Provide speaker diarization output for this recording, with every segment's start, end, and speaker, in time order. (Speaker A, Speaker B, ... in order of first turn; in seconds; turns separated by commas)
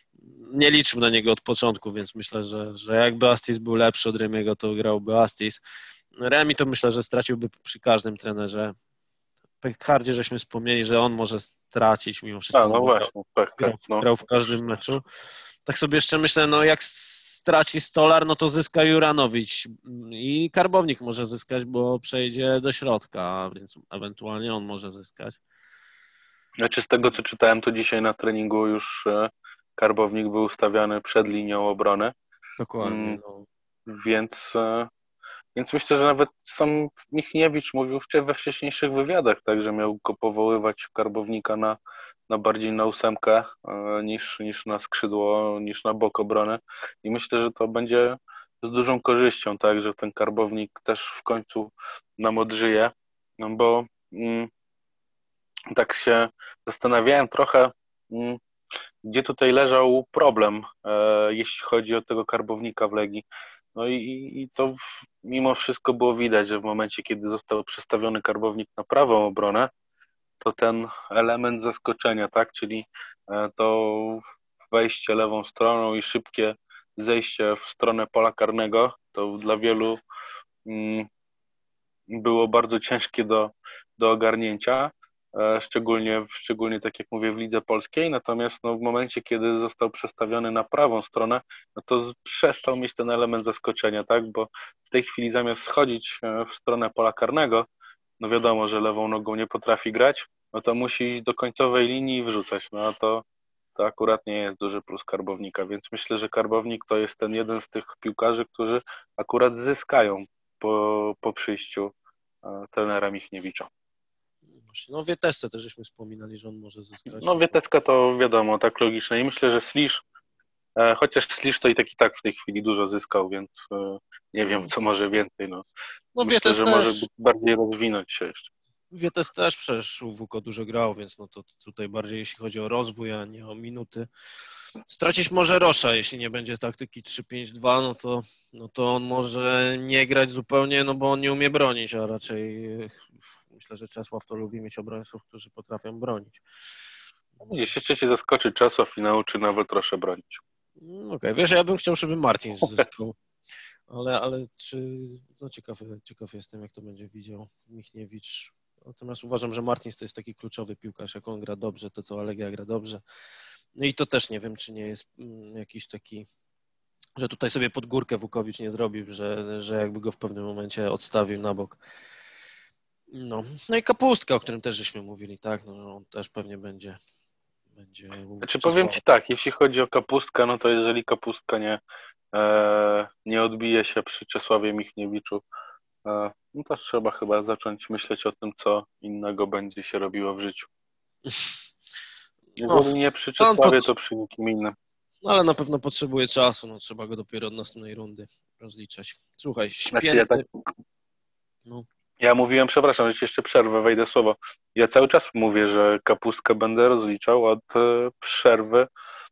Speaker A: 0.3-5.6, Speaker A: 6.2-8.7, Speaker A: 9.6-15.0, Speaker B: 12.5-14.1, Speaker A: 15.6-25.4, Speaker B: 26.6-32.1, Speaker A: 32.6-33.5, Speaker B: 32.8-33.2, Speaker B: 33.9-34.9, Speaker B: 35.5-41.8, Speaker B: 42.3-54.5, Speaker B: 55.7-58.4, Speaker B: 59.0-69.7, Speaker B: 70.4-80.0, Speaker B: 80.7-81.1, Speaker B: 82.1-97.7, Speaker B: 98.2-103.2, Speaker B: 103.8-111.9, Speaker B: 112.4-113.7, Speaker A: 114.5-117.3, Speaker B: 117.1-120.0, Speaker B: 120.8-125.7, Speaker A: 126.1-127.0, Speaker B: 126.2-128.5, Speaker A: 128.9-134.1, Speaker A: 134.9-146.4, Speaker B: 147.4-150.4, Speaker A: 150.8-153.2, Speaker A: 153.9-163.0, Speaker A: 163.7-166.3, Speaker A: 167.2-171.8, Speaker A: 173.1-177.0, Speaker A: 177.8-179.0, Speaker B: 178.4-181.8, Speaker B: 182.3-185.4, Speaker B: 186.1-190.7, Speaker A: 191.2-191.6, Speaker B: 192.6-194.7, Speaker A: 192.7-193.9, Speaker A: 195.2-200.4, Speaker B: 199.9-200.6, Speaker B: 202.2-208.9